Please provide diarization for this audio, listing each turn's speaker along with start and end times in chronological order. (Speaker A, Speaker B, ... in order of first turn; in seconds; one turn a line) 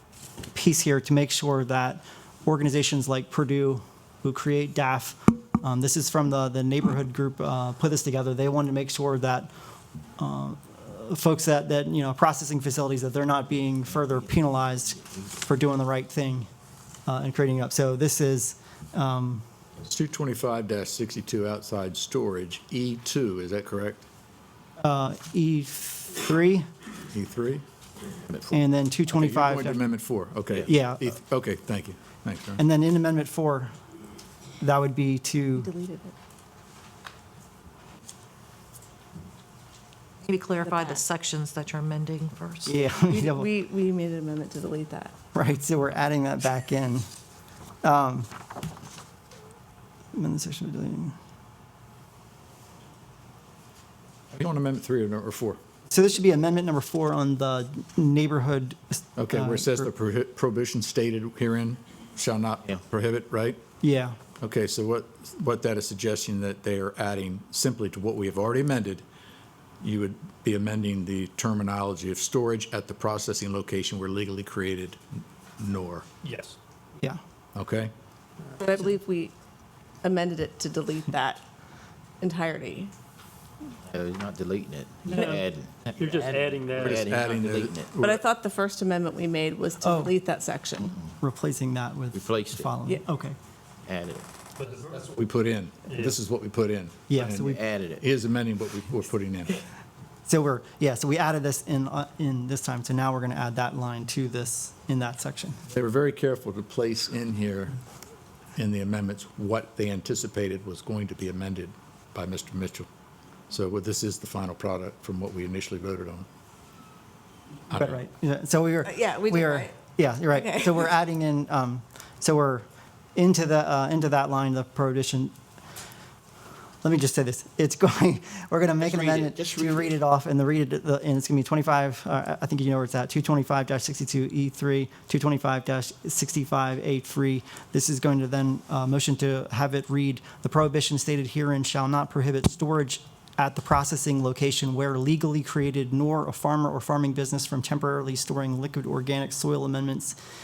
Speaker A: 0.5-9.5
Speaker A: 10.2-16.5
Speaker A: 17.1-19.4
Speaker B: 19.8-24.1
Speaker A: 24.8-26.7
Speaker B: 27.1-27.6
Speaker A: 28.5-29.8
Speaker B: 29.1-32.6
Speaker A: 30.7-31.1
Speaker A: 32.6-33.7
Speaker A: 34.6-35.7
Speaker C: 35.6-36.1
Speaker D: 40.2-42.8
Speaker C: 40.6-41.0
Speaker A: 42.7-43.5
Speaker C: 43.1-45.1
Speaker A: 45.3-47.1
Speaker A: 47.8-48.3
Speaker A: 50.1-51.2
Speaker B: 54.3-55.6
Speaker A: 55.9-59.9
Speaker B: 59.2-63.6
Speaker A: 63.8-64.2
Speaker B: 64.4-69.0
Speaker B: 69.8-75.0
Speaker B: 75.6-76.1
Speaker E: 76.2-76.6
Speaker B: 77.5-77.9
Speaker C: 78.6-79.3
Speaker C: 80.0-81.4
Speaker C: 82.2-82.9
Speaker F: 83.8-88.0
Speaker E: 85.1-87.0
Speaker B: 86.9-88.2
Speaker C: 88.0-91.0
Speaker A: 89.8-90.1
Speaker A: 91.2-93.3
Speaker F: 92.1-92.9
Speaker F: 93.8-94.3
Speaker B: 94.8-99.6
Speaker E: 95.9-96.2
Speaker A: 97.1-97.6
Speaker F: 97.3-98.1
Speaker A: 100.3-105.6
Speaker B: 105.7-107.8
Speaker B: 108.6-112.9
Speaker B: 113.5-116.3
Speaker A: 117.7-125.3
Speaker B: 117.7-118.0
Speaker C: 118.8-119.8
Speaker C: 120.3-120.8
Speaker A: 126.8-150.2
Speaker F: 128.8-129.9